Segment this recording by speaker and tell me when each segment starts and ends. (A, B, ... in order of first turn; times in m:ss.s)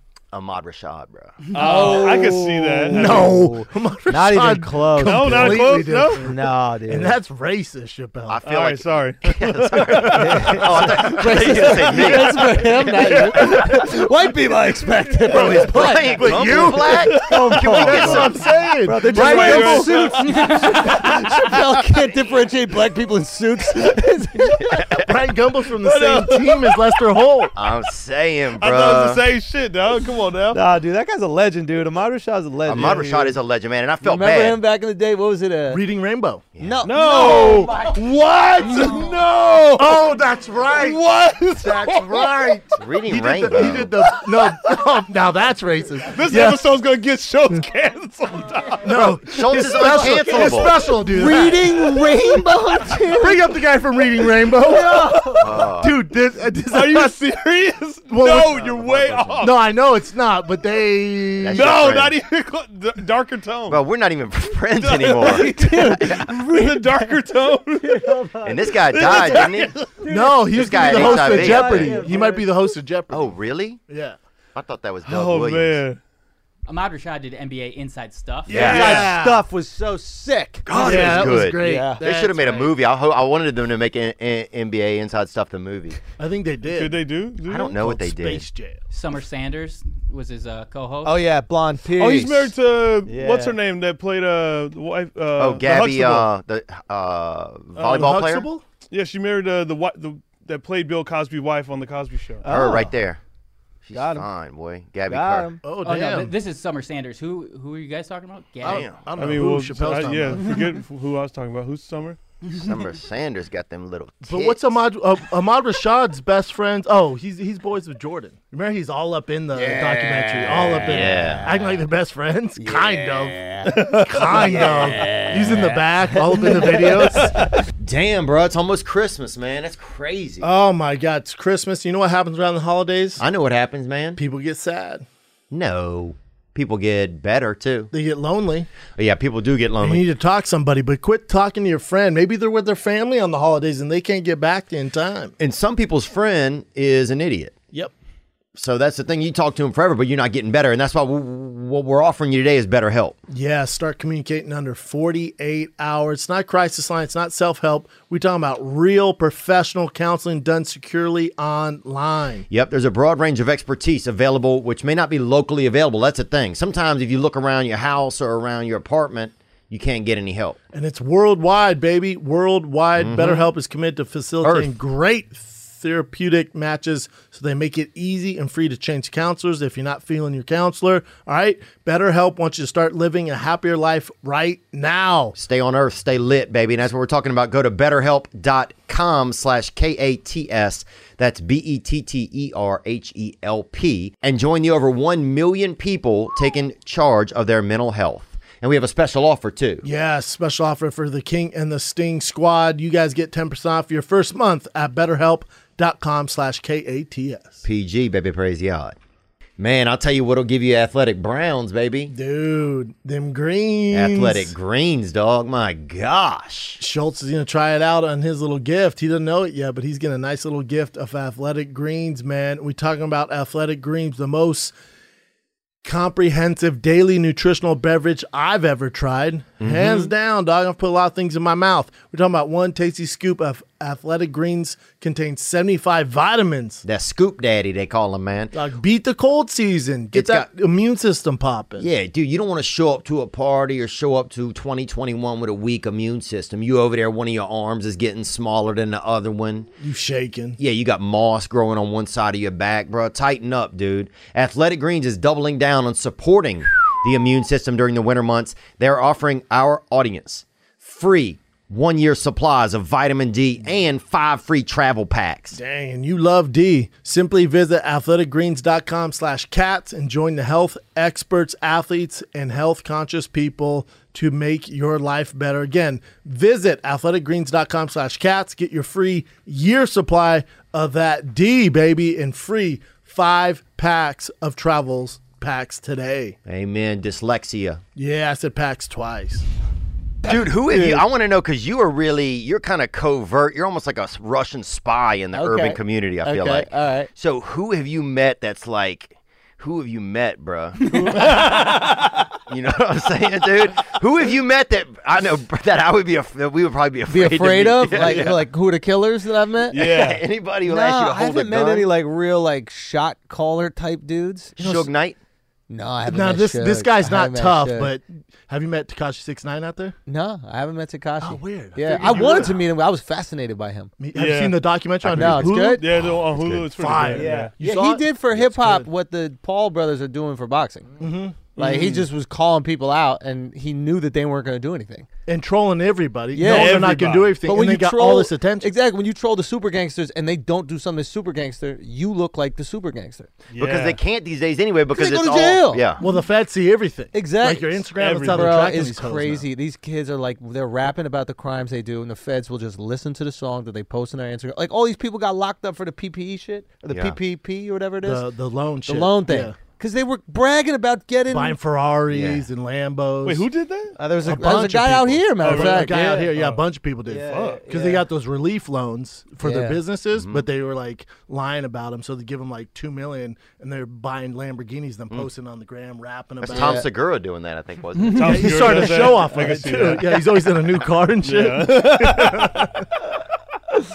0:00.3-0:01.4 A
0:01.5-0:03.4 B
0:01.5-0:07.2 C
0:02.9-0:06.4 D
0:05.0-0:06.3 B
0:06.9-0:08.4 D
0:08.3-0:13.6 A
0:08.4-0:10.2 B
0:09.8-0:10.1 D
0:10.2-0:24.8 C
0:11.5-0:12.2 B
0:15.3-0:17.1 D
0:15.3-0:18.4 A
0:16.7-0:18.2 B
0:17.7-0:20.1 D
0:19.0-0:21.6 B
0:24.7-0:25.1 A
0:25.0-0:27.5 D
0:25.8-0:27.2 B
0:27.6-0:29.3 A
0:28.6-0:30.6 B
0:30.5-0:33.1 C
0:32.7-0:34.6 A
0:32.7-0:33.4 B
0:34.0-0:35.8 C
0:35.7-0:36.4 D
0:36.6-0:36.9 A
0:36.6-0:39.2 C
0:36.8-0:42.7 B
0:39.8-0:41.0 D
0:41.6-0:46.6 D
0:42.8-0:43.9 A
0:44.1-0:44.8 B
0:46.0-0:49.2 B
0:48.8-0:51.9 D
0:49.3-0:50.8 A
0:50.0-0:50.5 B
0:51.1-0:53.5 C
0:53.2-0:57.2 D
0:54.6-0:55.5 C
0:55.4-0:56.0 A
0:56.7-0:59.6 B
0:58.1-1:01.8 D
1:01.4-1:02.2 A
1:01.5-1:03.8 B
1:03.7-1:06.3 A
1:04.8-1:10.0 B
1:05.2-1:07.2 C
1:07.8-1:12.5 C
1:08.4-1:09.8 A
1:10.1-1:13.3 D
1:10.5-1:12.1 A
1:13.1-1:13.8 A
1:13.9-1:14.2 D
1:14.6-1:15.8 A
1:15.0-1:16.0 B
1:16.7-1:18.8 E
1:18.5-1:19.4 D
1:18.5-1:22.0 C
1:18.5-1:19.1 A
1:20.7-1:26.0 A
1:20.7-1:22.7 D
1:26.2-1:27.1 D
1:26.7-1:27.8 B
1:27.4-1:28.5 A
1:27.6-1:28.8 D
1:28.9-1:31.2 E
1:31.0-1:32.5 C
1:31.9-1:36.3 B
1:33.0-1:33.6 C
1:35.4-1:38.5 A
1:37.8-1:38.6 D
1:37.8-1:38.0 B
1:38.9-1:42.5 B
1:42.4-1:42.9 C
1:42.4-1:43.2 A
1:43.8-1:45.5 A
1:43.9-1:44.3 C
1:45.1-1:45.6 C
1:45.6-1:46.3 D
1:45.8-1:49.0 E
1:48.6-1:49.0 A
1:48.6-1:50.7 D
1:49.2-1:52.2 B
1:52.5-1:54.8 A
1:54.3-2:07.4 D
1:59.5-2:01.8 C
2:00.7-2:01.5 A
2:02.6-2:03.8 C
2:03.7-2:04.0 B
2:04.3-2:07.6 C
2:04.4-2:05.1 A
2:07.8-2:10.5 A
2:10.4-2:13.2 D
2:13.2-2:14.2 A
2:14.2-2:15.0 D
2:15.5-2:17.9 A
2:17.9-2:18.7 D
2:19.0-2:20.0 A
2:19.8-2:25.4 D
2:25.4-2:27.6 A
2:28.6-2:33.2 A
2:33.3-2:42.5 D
2:42.5-2:50.6 A
2:50.7-3:05.4 D
2:53.0-2:53.5 A
2:54.4-2:54.7 A
3:05.4-3:19.9 A
3:19.8-3:27.6 D
3:27.6-3:29.0 A
3:29.6-3:32.1 A
3:32.1-3:34.5 D
3:33.9-3:36.8 A
3:36.8-3:44.7 D
3:45.8-3:56.8 D
3:49.6-3:50.1 A
3:56.8-3:58.5 A
3:58.5-4:01.9 D
4:00.1-4:00.5 A
4:01.8-4:09.7 A
4:09.8-4:10.6 D
4:10.6-4:25.6 A
4:25.5-4:46.4 D
4:46.4-4:47.8 A
4:48.0-4:49.4 D
4:50.2-4:51.0 C
4:50.2-5:01.6 A
4:55.3-4:57.1 C
5:00.9-5:01.9 B
5:02.5-5:08.4 A
5:07.1-5:09.8 C
5:08.0-5:08.3 B
5:09.7-5:10.2 B
5:09.7-5:11.9 A
5:10.7-5:14.5 C
5:14.6-5:15.2 A
5:14.6-5:14.9 D
5:15.7-5:17.9 C
5:16.1-5:20.0 D
5:20.1-5:23.9 C
5:21.2-5:22.6 D
5:21.9-5:22.5 B
5:24.0-5:25.8 D
5:24.1-5:24.6 B
5:25.0-5:25.4 A
5:25.2-5:25.9 C
5:25.4-5:27.5 B
5:26.4-5:26.7 A
5:26.7-5:28.9 D
5:27.1-5:30.9 C
5:31.0-5:31.5 D
5:31.6-5:32.1 B
5:31.6-5:35.1 C
5:35.3-5:38.7 D
5:36.3-5:43.3 C
5:36.4-5:37.4 B
5:43.5-5:44.0 B
5:43.6-5:46.0 A
5:44.9-5:46.2 C
5:46.0-5:49.5 D
5:47.1-5:58.2 C
5:48.0-5:48.6 B
5:56.9-5:57.2 A
5:58.0-5:59.6 D
5:58.9-6:01.6 C
6:01.3-6:03.5 D
6:02.1-6:02.5 A
6:03.2-6:04.0 B
6:04.0-6:06.3 C
6:04.2-6:16.8 D
6:05.4-6:06.6 B
6:07.1-6:08.1 C
6:07.2-6:07.6 B
6:09.4-6:09.8 C
6:10.1-6:10.5 A
6:16.4-6:18.8 A
6:16.5-6:16.9 C
6:18.1-6:20.5 B
6:18.1-6:22.9 D
6:21.2-6:22.6 B